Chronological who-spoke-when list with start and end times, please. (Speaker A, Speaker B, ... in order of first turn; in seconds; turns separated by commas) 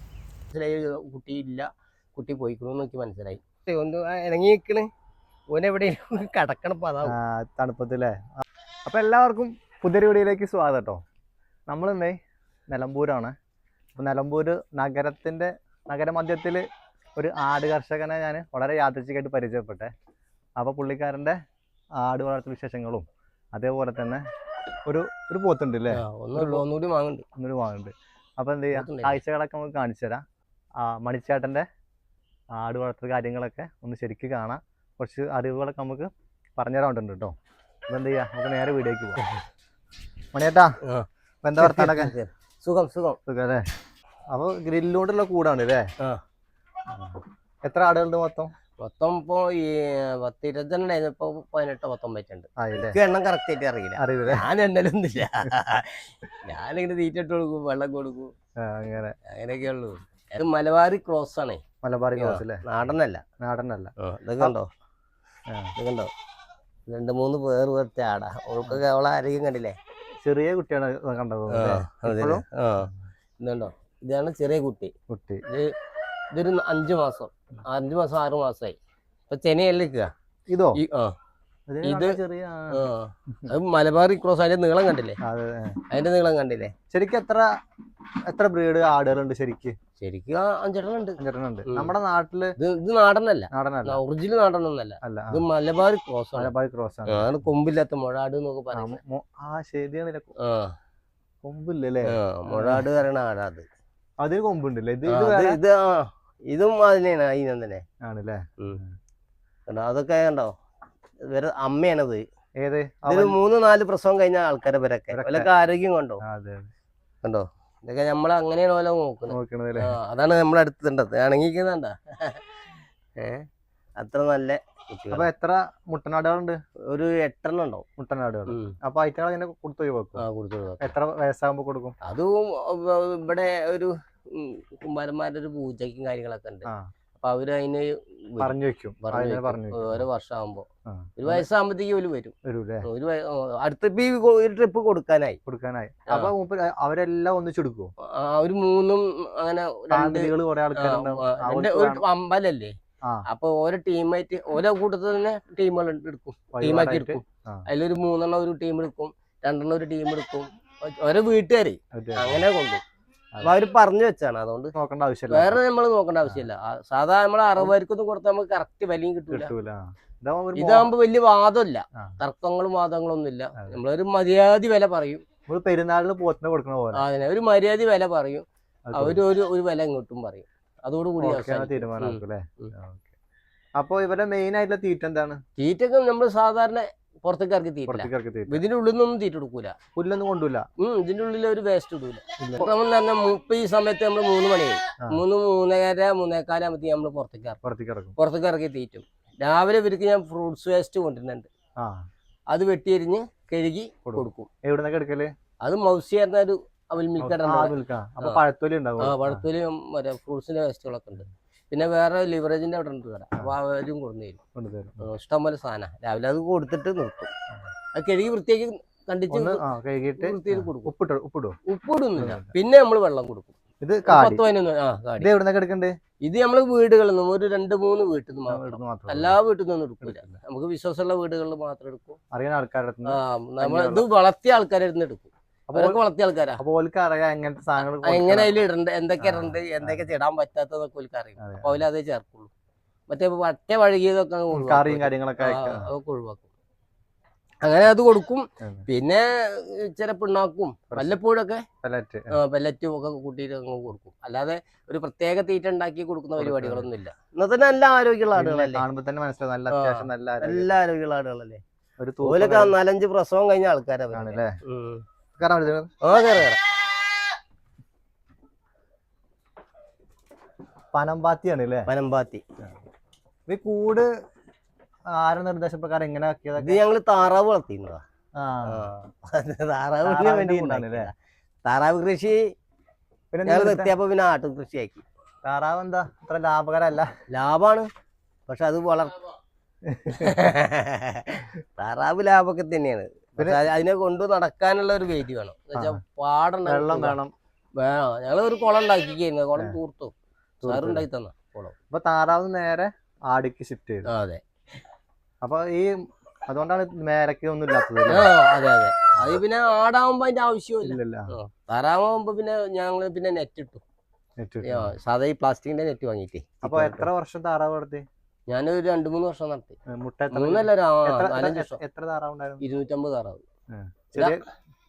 Speaker A: 0.5-4.9, Speaker A: 5.5-7.2, Speaker B: 7.0-11.0, Speaker B: 11.7-12.2, Speaker B: 12.7-13.3, Speaker B: 14.0-19.9, Speaker B: 20.6-21.4, Speaker B: 22.0-24.2, Speaker B: 24.9-26.6, Speaker A: 25.9-27.2, Speaker B: 27.4-30.2, Speaker A: 28.7-29.2, Speaker B: 30.8-31.7, Speaker B: 32.6-37.4, Speaker B: 37.9-39.2, Speaker B: 40.3-40.8, Speaker A: 40.8-41.1, Speaker B: 41.4-42.1, Speaker A: 41.6-43.2, Speaker B: 43.3-43.7, Speaker B: 44.3-45.9, Speaker B: 46.9-48.5, Speaker A: 48.8-58.3, Speaker B: 52.6-53.0, Speaker B: 54.0-54.5, Speaker B: 58.6-59.2, Speaker A: 59.3-61.6, Speaker B: 61.8-62.6, Speaker A: 62.2-63.2, Speaker B: 63.4-64.5, Speaker A: 64.0-64.7, Speaker B: 65.5-65.7, Speaker A: 65.8-66.1, Speaker A: 66.9-69.8, Speaker B: 70.2-72.4, Speaker A: 71.5-74.9, Speaker B: 75.1-75.4, Speaker A: 75.5-75.7, Speaker A: 76.3-78.8, Speaker A: 79.3-80.1, Speaker B: 80.5-80.8, Speaker A: 80.8-81.2, Speaker B: 81.7-83.5, Speaker A: 81.8-82.2, Speaker A: 82.7-85.2, Speaker B: 85.2-85.8, Speaker A: 85.9-86.7, Speaker B: 86.9-87.5, Speaker B: 88.3-89.8, Speaker A: 90.0-91.9, Speaker B: 91.2-92.5, Speaker A: 92.6-96.5, Speaker B: 93.5-94.0, Speaker B: 95.0-95.4, Speaker B: 96.4-97.4, Speaker A: 97.1-99.0, Speaker B: 98.7-100.3, Speaker A: 100.4-100.7, Speaker B: 101.4-102.9, Speaker A: 102.1-103.7, Speaker B: 104.2-105.6, Speaker A: 105.1-107.8, Speaker B: 108.0-109.0, Speaker A: 109.7-110.5, Speaker A: 111.3-112.2, Speaker B: 112.6-113.4, Speaker A: 113.1-116.2, Speaker B: 115.1-115.5, Speaker B: 116.2-116.7, Speaker A: 117.2-122.4, Speaker B: 119.3-120.0, Speaker A: 123.2-123.5, Speaker A: 124.0-125.3, Speaker B: 125.1-126.6, Speaker A: 126.9-127.8, Speaker B: 128.0-130.2, Speaker A: 128.5-128.8, Speaker A: 130.2-130.9, Speaker B: 130.8-132.0, Speaker A: 132.0-140.7, Speaker B: 136.7-136.9, Speaker B: 138.4-140.1, Speaker B: 140.9-141.5, Speaker A: 141.2-145.4, Speaker B: 142.4-142.9, Speaker B: 145.5-147.9, Speaker A: 148.1-162.8, Speaker B: 149.9-152.1, Speaker B: 156.5-157.7, Speaker B: 161.9-162.4, Speaker A: 163.4-164.7, Speaker B: 164.8-165.6, Speaker A: 165.3-169.5, Speaker B: 169.3-170.9, Speaker A: 170.6-175.2, Speaker B: 175.5-177.0, Speaker A: 176.9-182.7, Speaker B: 178.9-179.2, Speaker B: 181.2-183.1, Speaker B: 183.8-185.4, Speaker A: 185.6-189.8, Speaker B: 187.9-188.6, Speaker B: 189.9-190.7, Speaker A: 190.8-197.6, Speaker B: 192.4-192.7, Speaker B: 197.6-198.2, Speaker A: 198.2-201.5, Speaker B: 201.8-202.1, Speaker A: 202.5-204.5, Speaker B: 204.1-205.3, Speaker A: 205.6-208.4, Speaker B: 207.2-209.5, Speaker A: 209.0-214.4, Speaker B: 214.6-215.1, Speaker A: 215.0-217.3, Speaker A: 217.9-219.6, Speaker B: 219.3-221.6, Speaker A: 220.2-220.9, Speaker A: 221.7-223.6, Speaker B: 222.2-222.5, Speaker B: 223.8-224.4, Speaker A: 224.1-225.3, Speaker B: 225.2-225.9, Speaker A: 226.2-232.2, Speaker B: 228.5-229.4, Speaker B: 230.0-230.3, Speaker B: 232.3-234.1, Speaker A: 233.1-236.6, Speaker B: 235.7-236.0, Speaker B: 236.6-238.6, Speaker A: 238.0-242.5, Speaker B: 239.2-240.0, Speaker B: 241.4-241.8, Speaker A: 243.1-246.5, Speaker B: 244.5-245.9, Speaker A: 247.6-251.7, Speaker B: 248.6-248.9, Speaker B: 250.9-251.2, Speaker B: 251.8-252.4, Speaker A: 252.3-258.8, Speaker B: 256.4-256.9, Speaker B: 258.4-260.7, Speaker A: 259.7-261.6, Speaker B: 262.0-262.8, Speaker A: 262.2-265.0, Speaker B: 264.1-264.6, Speaker B: 265.4-265.9, Speaker A: 266.0-266.6, Speaker B: 270.9-271.9, Speaker A: 271.9-272.4, Speaker B: 273.5-274.1, Speaker B: 275.1-276.8, Speaker A: 276.6-278.0, Speaker B: 278.4-278.9, Speaker A: 278.7-281.1, Speaker B: 280.0-281.1, Speaker A: 281.6-282.5, Speaker B: 283.3-283.9, Speaker A: 283.5-285.1, Speaker B: 285.4-287.1, Speaker A: 287.3-287.9, Speaker A: 288.5-289.2, Speaker B: 289.9-290.4, Speaker A: 290.1-297.2, Speaker B: 293.4-293.6, Speaker B: 295.8-296.0, Speaker B: 296.7-297.3, Speaker A: 297.8-300.1, Speaker B: 300.6-301.1, Speaker A: 300.6-301.8, Speaker B: 301.9-304.1, Speaker A: 304.1-304.4, Speaker B: 305.4-308.3, Speaker A: 308.1-313.8, Speaker B: 310.8-311.3, Speaker B: 314.4-314.9, Speaker A: 314.6-317.1, Speaker B: 316.6-318.1, Speaker A: 318.5-319.8, Speaker B: 319.9-322.6, Speaker A: 320.3-321.8, Speaker A: 322.6-323.4, Speaker B: 323.7-324.4, Speaker A: 324.1-324.4